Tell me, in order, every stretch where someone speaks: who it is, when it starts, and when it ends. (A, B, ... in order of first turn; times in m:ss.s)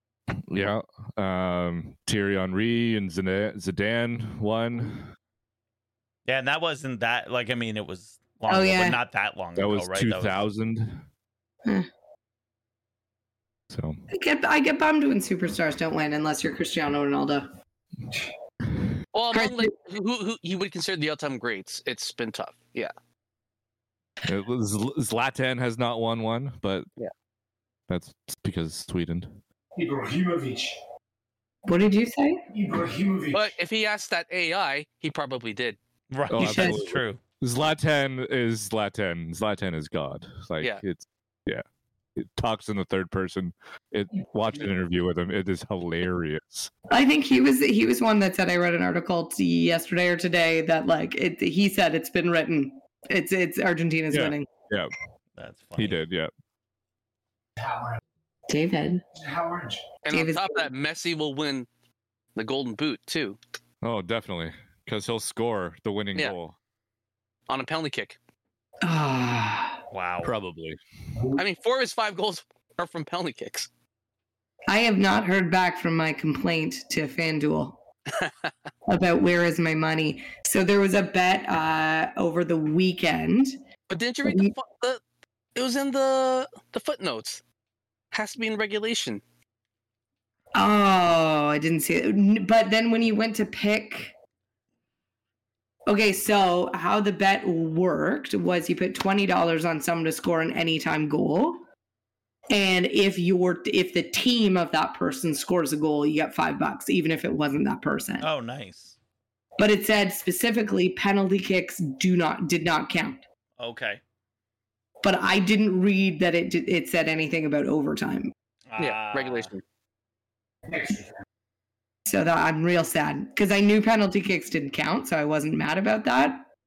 0:00.5-0:05.1 A
0:06.3-0:10.4 B
0:08.5-0:09.0 C
0:09.6-0:11.0 A
0:13.7-0:14.0 A
0:14.1-0:17.5 C
0:19.1-0:22.9 D
0:19.3-0:19.7 C
0:24.2-0:26.8 A
0:27.9-0:29.4 A
0:29.8-0:30.8 E
0:31.6-0:32.4 C
0:32.5-0:33.6 E
0:33.3-0:35.8 D
0:36.1-0:37.2 B
0:36.3-0:41.6 A
0:36.3-0:36.8 C
0:42.2-0:46.7 A
0:46.9-0:54.5 C
0:54.1-0:54.9 A
0:55.4-0:56.0 B
0:55.8-0:56.3 A
0:57.6-0:58.0 E
0:58.5-0:59.0 C
0:59.2-0:59.8 E
1:00.0-1:01.7 D
1:00.1-1:00.7 C
1:02.4-1:03.4 D
1:03.8-1:06.5 A
1:07.5-1:08.2 D
1:08.8-1:09.8 C
1:09.9-1:10.3 B
1:10.2-1:10.8 A
1:11.4-1:13.7 D
1:14.7-1:17.8 C
1:18.8-1:23.5 C
1:23.9-1:25.0 D
1:24.2-1:24.5 C
1:25.6-1:27.4 D
1:28.1-1:29.2 D
1:30.5-1:34.1 C
1:35.8-1:41.6 C
1:42.5-1:48.2 C
1:48.2-1:49.0 B
1:49.6-1:53.2 C
1:53.6-1:54.0 B
1:55.0-1:58.3 C
1:58.7-1:59.5 B
1:58.8-1:59.6 D
2:00.7-2:01.1 E
2:02.1-2:06.5 C